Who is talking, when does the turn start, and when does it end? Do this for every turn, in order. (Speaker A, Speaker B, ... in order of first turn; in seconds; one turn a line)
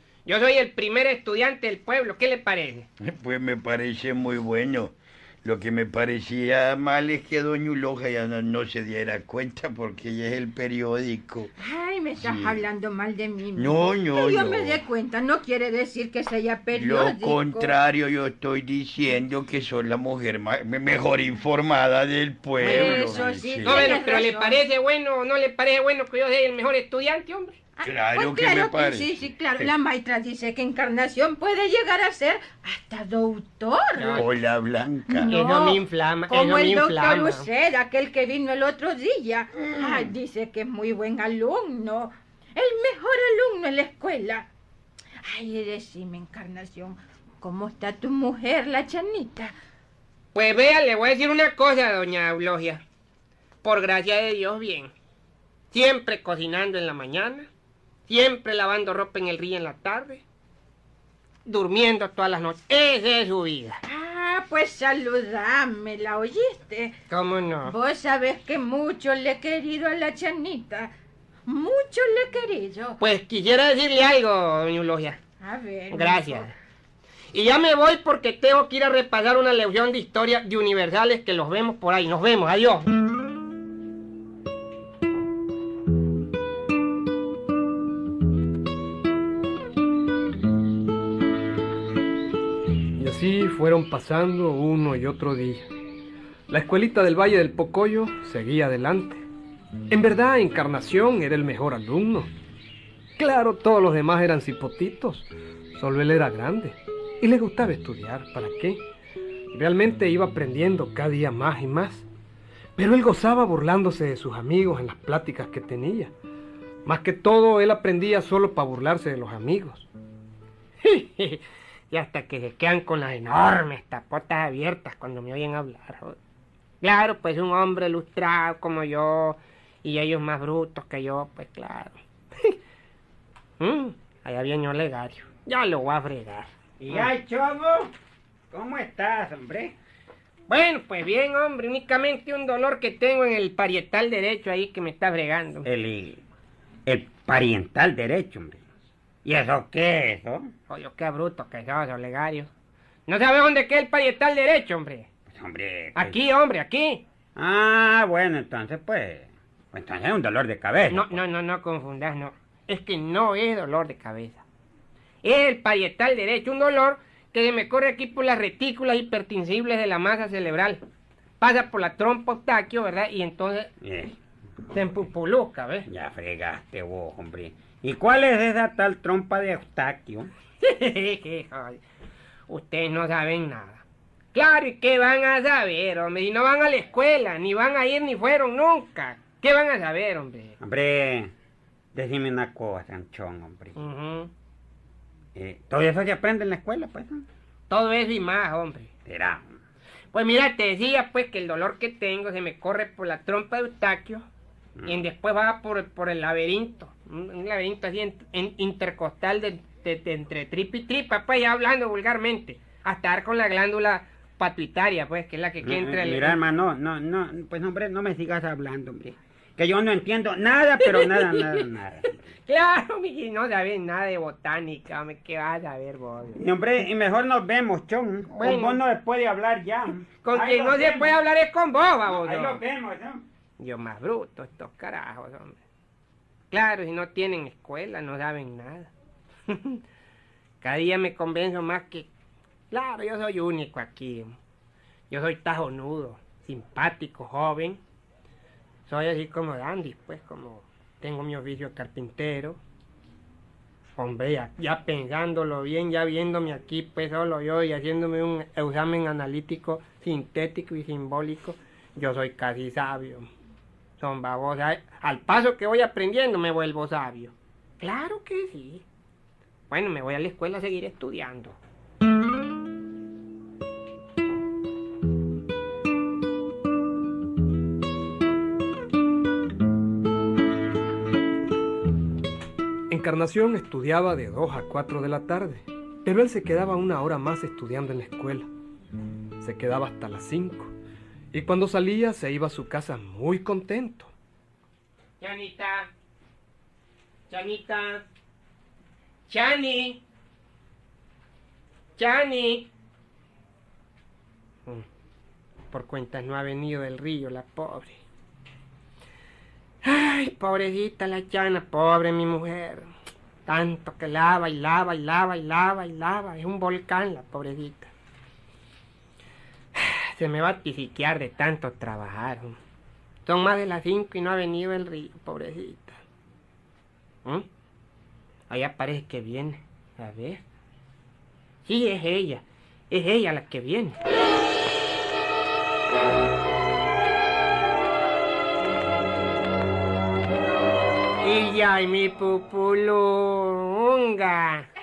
Speaker A: 0.2-2.9
Speaker B: 3.0-11.5
Speaker C: 11.6-17.7
Speaker B: 12.2-12.6
Speaker B: 13.5-14.8
Speaker B: 16.7-24.0
Speaker C: 22.6-24.6
Speaker A: 22.7-27.5
Speaker C: 27.8-34.3
Speaker B: 27.8-29.2
Speaker A: 34.0-34.3
Speaker B: 34.1-35.3
Speaker C: 35.1-44.5
Speaker A: 35.3-37.5
Speaker B: 39.7-40.1
Speaker C: 45.2-49.5
Speaker A: 50.3-52.8
Speaker A: 53.6-54.9
Speaker A: 55.7-57.5
Speaker A: 58.1-60.2
Speaker A: 61.4-63.8
Speaker C: 63.8-66.9
Speaker A: 67.1-67.7
Speaker C: 67.6-70.9
Speaker C: 71.5-73.0
Speaker A: 73.0-75.2
Speaker C: 75.4-76.5
Speaker A: 75.9-76.5
Speaker A: 77.3-82.9
Speaker D: 93.0-95.7
Speaker D: 96.5-99.2
Speaker D: 99.9-102.3
Speaker D: 103.2-108.8
Speaker D: 109.5-112.1
Speaker D: 112.8-116.1
Speaker D: 116.8-119.9
Speaker A: 120.8-126.2
Speaker A: 126.8-132.5
Speaker A: 133.6-137.1
Speaker E: 136.8-137.9
Speaker E: 138.5-139.7
Speaker A: 140.5-145.7
Speaker E: 145.6-146.2
Speaker E: 146.8-148.6
Speaker E: 149.2-150.5
Speaker A: 150.7-152.5
Speaker A: 153.1-155.1
Speaker E: 155.3-156.2
Speaker A: 155.9-157.0
Speaker E: 157.3-161.2
Speaker A: 160.9-164.4
Speaker A: 165.2-170.8
Speaker A: 171.4-173.7
Speaker E: 173.8-174.2
Speaker A: 174.7-175.9
Speaker E: 175.9-180.3
Speaker A: 180.6-181.8
Speaker A: 182.5-190.6
Speaker E: 190.6-191.3
Speaker E: 191.9-193.8
Speaker A: 193.8-194.3
Speaker E: 195.3-197.2
Speaker A: 197.7-198.9
Speaker E: 199.1-199.4
Speaker A: 200.1-204.3
Speaker A: 204.8-216.4
Speaker E: 215.6-222.2
Speaker A: 220.8-221.7
Speaker A: 222.4-226.4
Speaker E: 226.3-231.2
Speaker A: 228.4-228.8
Speaker A: 230.2-232.6
Speaker E: 232.0-233.2
Speaker A: 233.6-235.6
Speaker A: 236.5-238.9
Speaker A: 239.5-239.8
Speaker A: 240.6-242.1
Speaker A: 242.7-244.4
Speaker A: 245.1-247.8
Speaker A: 248.8-252.6
Speaker A: 254.0-263.3
Speaker A: 264.0-268.8
Speaker A: 269.7-271.6
Speaker D: 282.9-288.5
Speaker D: 289.4-290.7
Speaker D: 291.3-294.1
Speaker A: 295.2-295.9
Speaker A: 297.3-298.0
Speaker A: 299.3-300.0
Speaker A: 302.0-302.7
Speaker A: 305.7-308.0
Speaker A: 309.8-312.9
Speaker A: 313.4-317.9
Speaker A: 319.8-322.6
Speaker A: 323.2-326.0
Speaker A: 328.5-330.4
Speaker A: 331.6-334.0
Speaker A: 341.2-344.7